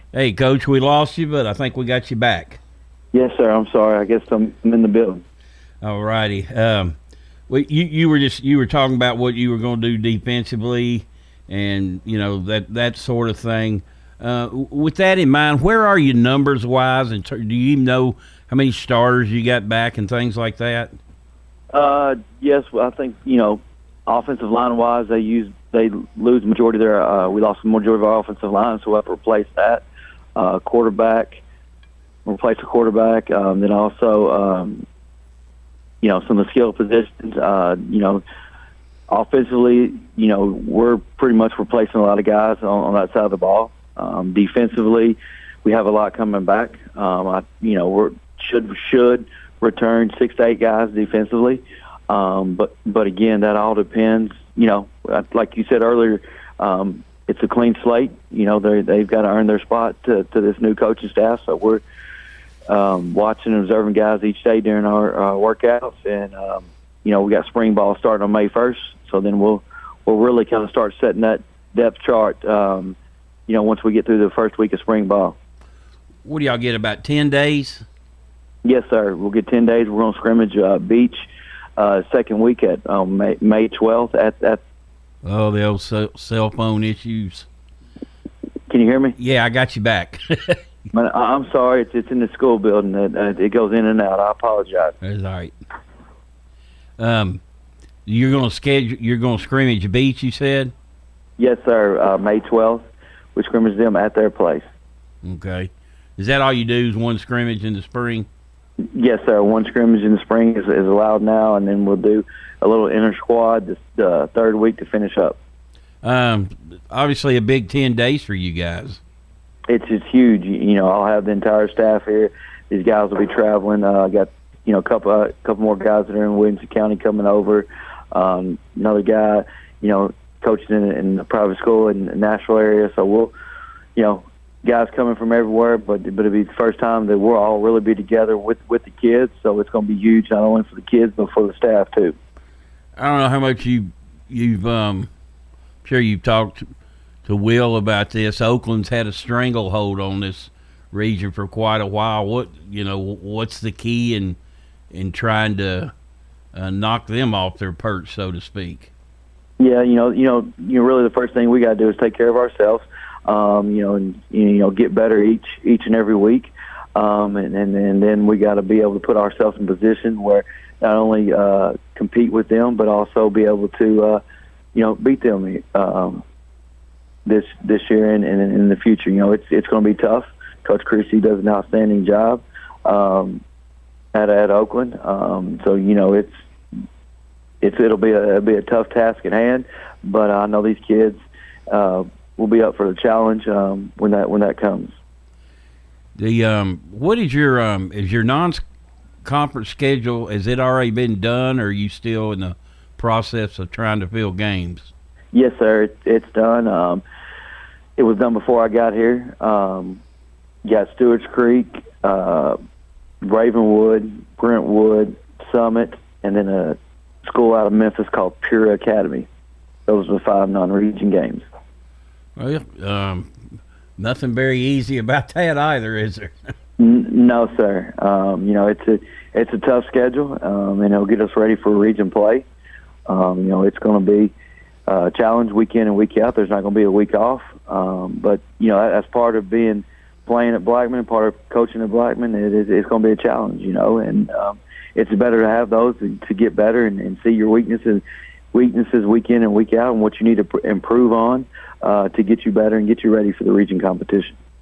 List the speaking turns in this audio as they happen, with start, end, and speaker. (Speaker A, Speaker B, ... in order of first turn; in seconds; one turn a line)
Speaker A: 0.1-2.6
Speaker B: 3.1-5.2
Speaker A: 5.8-7.0
Speaker A: 7.5-20.9
Speaker B: 21.7-29.8
Speaker B: 30.4-31.4
Speaker B: 32.3-34.9
Speaker B: 36.0-38.2
Speaker B: 39.1-61.8
Speaker B: 62.7-73.0
Speaker B: 73.5-75.4
Speaker A: 76.2-77.8
Speaker B: 78.6-81.3
Speaker B: 81.8-84.6
Speaker A: 85.2-87.5
Speaker B: 88.7-89.2
Speaker A: 89.2-90.6
Speaker B: 90.9-95.0
Speaker A: 95.0-95.5
Speaker A: 97.0-97.4
Speaker A: 98.1-100.7
Speaker B: 101.4-102.8
Speaker B: 103.4-104.7
Speaker A: 105.2-108.3
Speaker B: 109.0-115.4
Speaker A: 116.0-119.0
Speaker B: 119.7-133.3
Speaker B: 134.0-142.2
Speaker A: 143.0-145.1
Speaker A: 145.8-146.7
Speaker A: 147.2-154.4
Speaker A: 154.9-155.9
Speaker A: 156.5-158.9
Speaker B: 159.6-174.2
Speaker B: 174.8-176.2
Speaker B: 177.3-183.4
Speaker B: 184.1-186.3
Speaker B: 187.6-195.0
Speaker A: 196.2-198.6
Speaker A: 199.2-204.9
Speaker B: 205.3-207.0
Speaker B: 208.0-210.0
Speaker B: 210.7-212.6
Speaker B: 213.2-219.3
Speaker B: 219.9-221.4
Speaker A: 222.4-226.4
Speaker B: 226.8-232.4
Speaker B: 233.1-234.3
Speaker B: 234.9-254.4